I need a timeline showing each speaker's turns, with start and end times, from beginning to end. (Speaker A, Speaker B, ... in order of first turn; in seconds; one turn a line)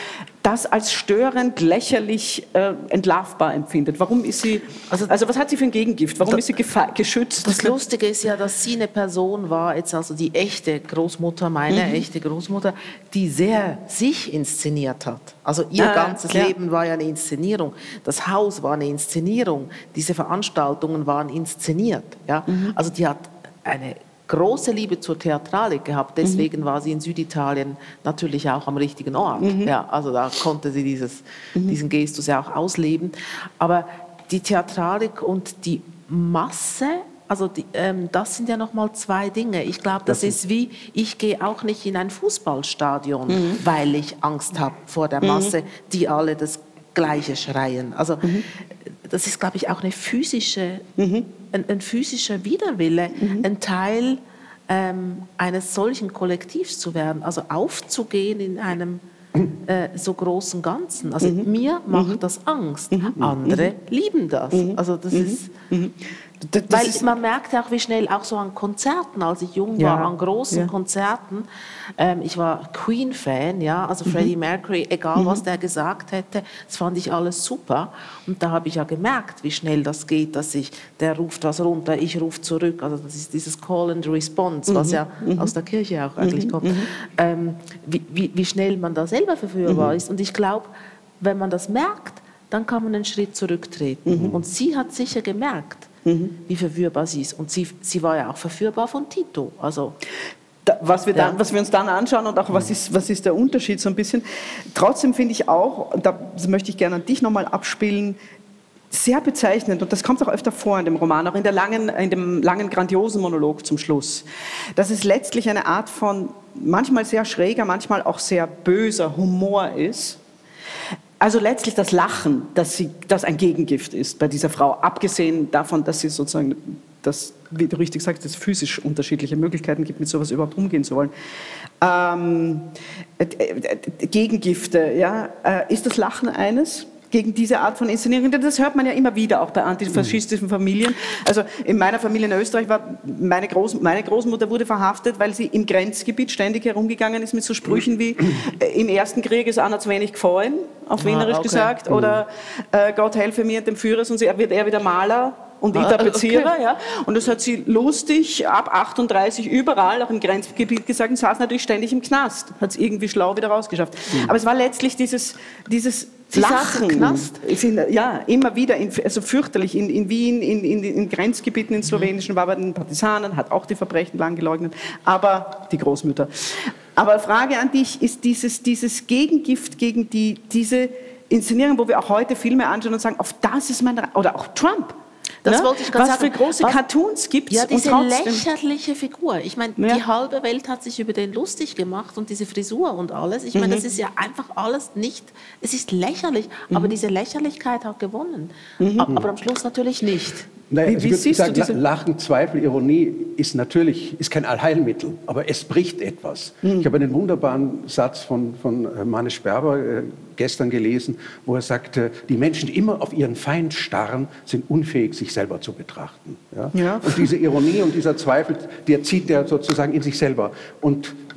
Speaker A: 0.4-7.7
Speaker B: 7.4-50.9
Speaker A: 11.7-12.0
Speaker A: 15.8-16.5
Speaker A: 22.5-22.7
Speaker A: 29.4-29.7
Speaker C: 40.1-40.3
Speaker A: 43.3-43.6
Speaker A: 45.2-45.5
Speaker A: 51.0-51.3
Speaker B: 51.5-65.5
Speaker A: 53.2-53.5
Speaker A: 61.2-62.2
Speaker A: 62.9-63.6
Speaker A: 64.5-67.0
Speaker B: 66.7-95.9
Speaker A: 69.8-70.7
Speaker A: 75.1-75.4
Speaker A: 84.7-85.5
Speaker A: 86.2-86.9
Speaker A: 94.0-94.3
Speaker A: 96.0-96.3
Speaker B: 96.4-100.0
Speaker A: 100.7-108.2
Speaker A: 108.9-120.2
Speaker A: 121.2-131.1
Speaker A: 131.8-188.4
Speaker B: 151.0-151.7
Speaker C: 151.9-152.2
Speaker B: 155.7-156.5
Speaker B: 166.3-167.4
Speaker B: 185.4-186.8
Speaker B: 187.5-200.5
Speaker A: 193.5-193.8
Speaker A: 198.8-199.1
Speaker C: 200.7-221.2
Speaker A: 200.9-201.8
Speaker A: 216.7-217.3